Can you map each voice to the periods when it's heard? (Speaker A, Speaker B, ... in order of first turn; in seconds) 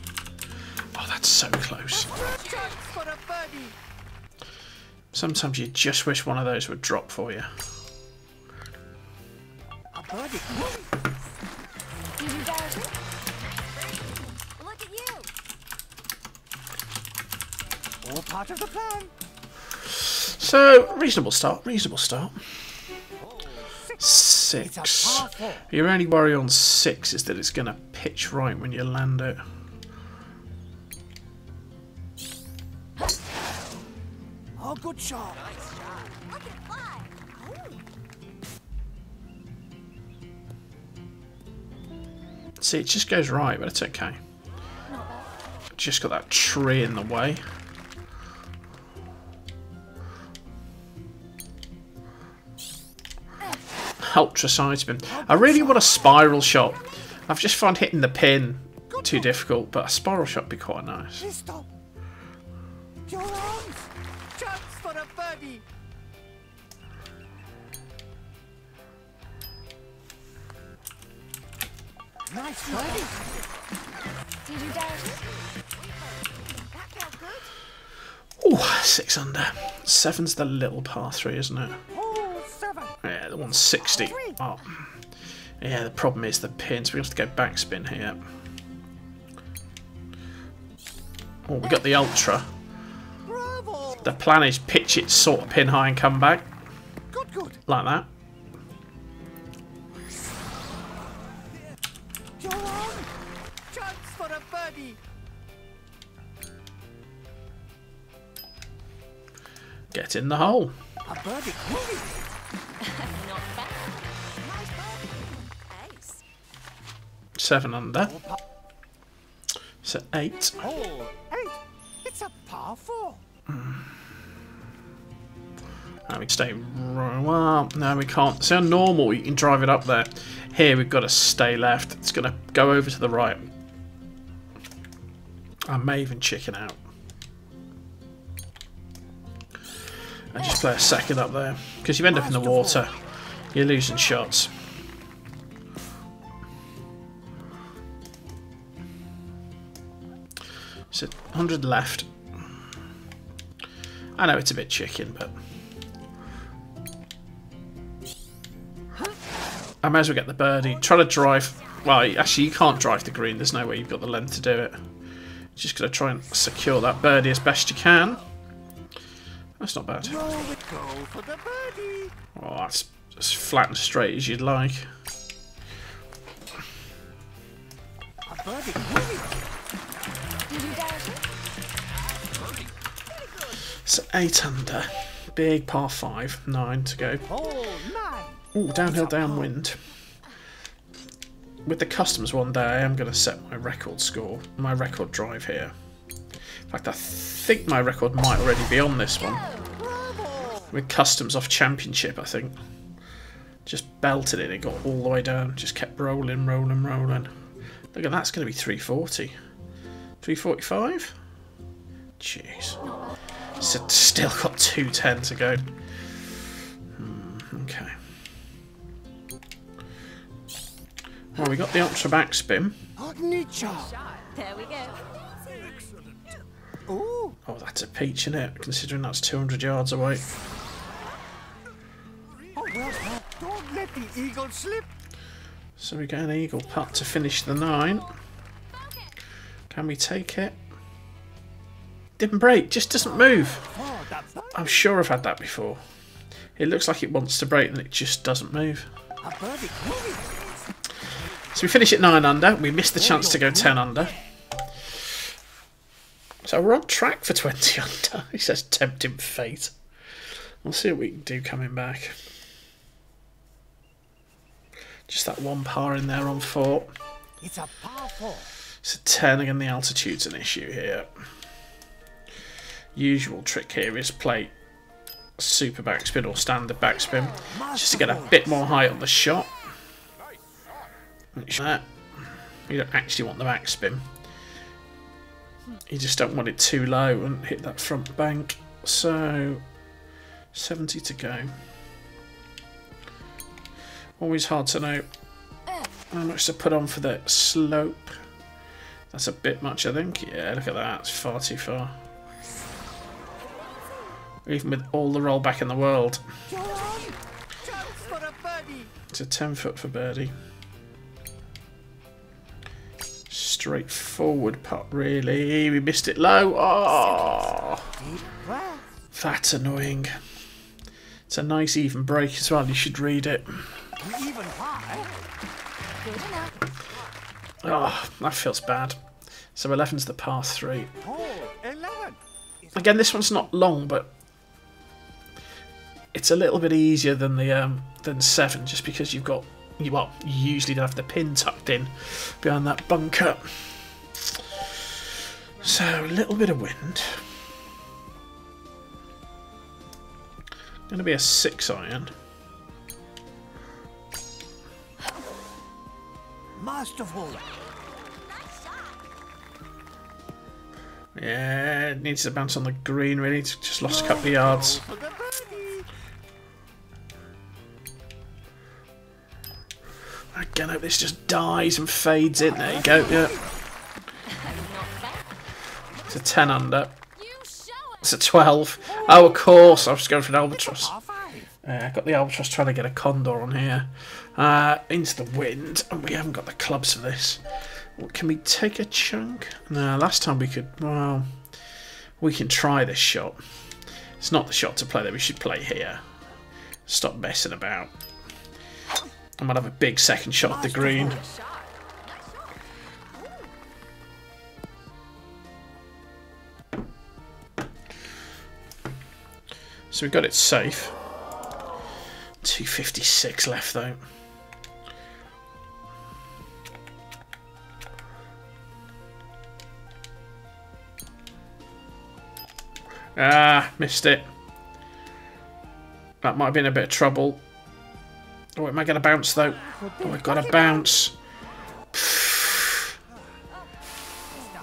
Speaker A: 0.9-2.2, 5.1-7.5, 19.9-22.6, 24.0-29.4, 42.6-44.2, 45.7-47.4, 54.0-61.3, 78.4-81.8, 83.0-85.0, 85.6-88.2, 91.5-92.5, 94.0-96.5, 97.7-98.1, 109.9-110.8, 117.4-118.2, 119.8-120.7, 123.5-123.9, 126.1-133.5, 135.7-136.8, 140.3-143.0, 143.5-144.6, 150.9-152.1, 154.1-155.3, 159.8-164.8, 165.6-168.2, 169.6-170.3, 172.3-174.9, 183.7-187.3, 188.5-189.8, 191.6-195.7, 196.7-199.6, 200.7-202.6, 203.6-207.3, 207.9-209.3, 210.2-211.2, 212.2-212.8, 213.6-215.7, 216.9-217.9, 221.3-222.8, 227.4-230.2, 235.8-238.1, 239.7-240.6, 242.2-243.7, 244.5-245.8, 246.6-248.9, 251.5-254.2, 256.4-259.7, 260.6-262.2, 265.1-266.9, 268.8-271.1, 272.9-274.5, 275.4-279.5, 281.3-284.1, 285.9-289.6, 290.5-291.5, 294.2-295.1, 296.1-298.2, 299.1-301.9, 304.4-306.2, 309.1-310.3, 313.3-317.9, 319.1-320.1, 321.3-323.9, 327.6-329.0, 329.5-330.9, 332.7-334.1, 336.1-344.9, 345.6-347.3, 350.9-352.1, 361.1-364.8, 370.3-373.4, 376.1-377.0, 378.0-381.0, 381.6-387.4, 387.9-391.3, 392.2-393.4, 394.2-396.0, 396.9-397.9, 399.4-401.2, 409.9-411.0, 412.4-414.0, 423.1-424.3, 426.2-427.4, 428.6-431.1, 431.9-432.9
Speaker B: 2.3-3.7, 9.9-10.8, 18.0-19.1, 23.3-24.0, 24.6-25.6, 34.6-35.4, 55.2-55.5, 61.3-61.7, 63.0-65.6, 72.3-73.1, 76.8-77.5, 82.0-83.0, 84.0-84.3, 93.2-94.0, 97.1-97.6, 102.4-103.1, 103.7-105.0, 111.0-112.3, 114.5-115.3, 120.6-123.2, 142.3-142.8, 170.2-172.1, 178.2-179.4, 187.3-188.4, 199.8-200.7, 223.0-223.9, 226.9-227.4, 232.5-234.9, 243.8-244.5, 249.2-250.4, 253.3-253.7, 267.4-268.5, 277.7-278.2, 306.5-307.1, 307.7-308.9, 317.9-318.9, 324.0-325.1, 331.1-332.7, 356.6-357.4, 364.9-365.9, 381.0-381.4, 429.9-430.6
Speaker C: 12.2-12.9, 13.5-15.3, 36.1-37.8, 44.9-45.3, 74.4-75.2, 112.8-114.0, 115.7-116.2, 180.5-181.1, 224.1-225.6, 326.0-326.6, 374.3-375.3, 377.2-378.0, 401.2-401.5